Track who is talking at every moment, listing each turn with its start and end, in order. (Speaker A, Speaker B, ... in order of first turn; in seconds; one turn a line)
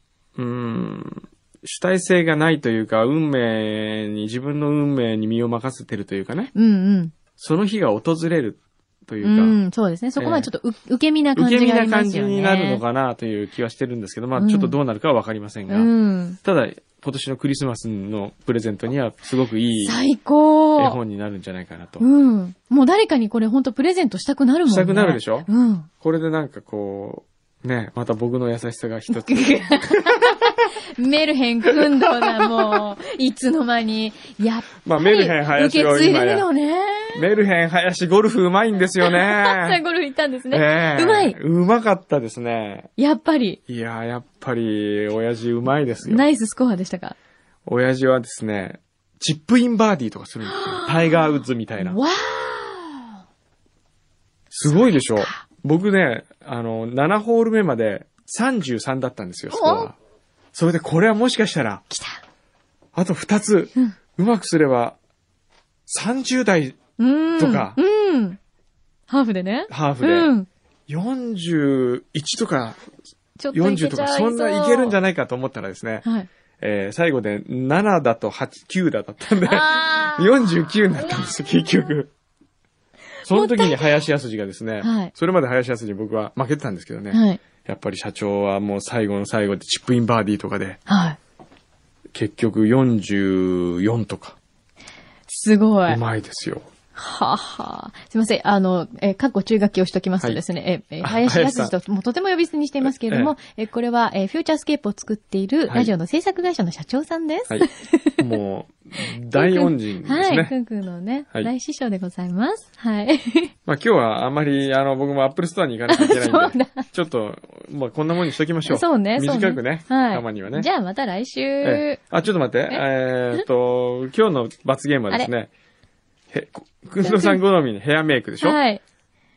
Speaker A: 0.4-6.5
Speaker B: 6.5-7.1
Speaker A: 7.4-9.6
Speaker B: 9.2-12.8
Speaker A: 10.2-10.5
Speaker A: 11.4-15.9
Speaker B: 14.4-14.8
Speaker B: 15.7-16.4
Speaker A: 16.4-20.0
Speaker B: 19.8-21.0
Speaker A: 20.8-22.1
Speaker B: 22.0-25.9
Speaker A: 24.7-25.5
Speaker A: 26.0-30.4
Speaker B: 29.1-37.3
Speaker A: 34.9-36.5
Speaker A: 37.1-39.8
Speaker B: 39.0-41.4
Speaker A: 40.5-42.9
Speaker B: 43.0-43.6
Speaker A: 43.7-46.3
Speaker B: 46.0-47.2
Speaker A: 47.7-52.0
Speaker B: 50.5-53.1
Speaker A: 54.5-60.0
Speaker B: 54.7-55.4
Speaker B: 59.5-59.9
Speaker A: 60.5-61.8
Speaker B: 61.9-62.2
Speaker A: 63.0-65.0
Speaker A: 65.9-66.8
Speaker B: 67.0-68.4
Speaker A: 67.4-67.8
Speaker B: 69.1-70.5
Speaker A: 69.7-70.3
Speaker A: 70.9-72.8
Speaker B: 73.4-75.0
Speaker A: 73.5-76.1
Speaker A: 76.6-82.1
Speaker B: 79.4-80.5
Speaker A: 83.2-90.8
Speaker B: 83.3-84.0
Speaker B: 84.8-85.1
Speaker B: 87.1-87.4
Speaker B: 90.9-91.2
Speaker A: 92.1-94.4
Speaker B: 95.3-96.0
Speaker A: 95.9-96.7
Speaker B: 97.0-108.2
Speaker A: 101.0-101.7
Speaker A: 102.8-103.3
Speaker A: 108.2-110.5
Speaker B: 109.3-113.5
Speaker A: 113.7-120.7
Speaker B: 115.9-116.9
Speaker B: 118.7-122.0
Speaker A: 121.6-125.5
Speaker B: 122.7-123.5
Speaker A: 126.3-128.6
Speaker B: 127.0-127.4
Speaker B: 128.4-128.8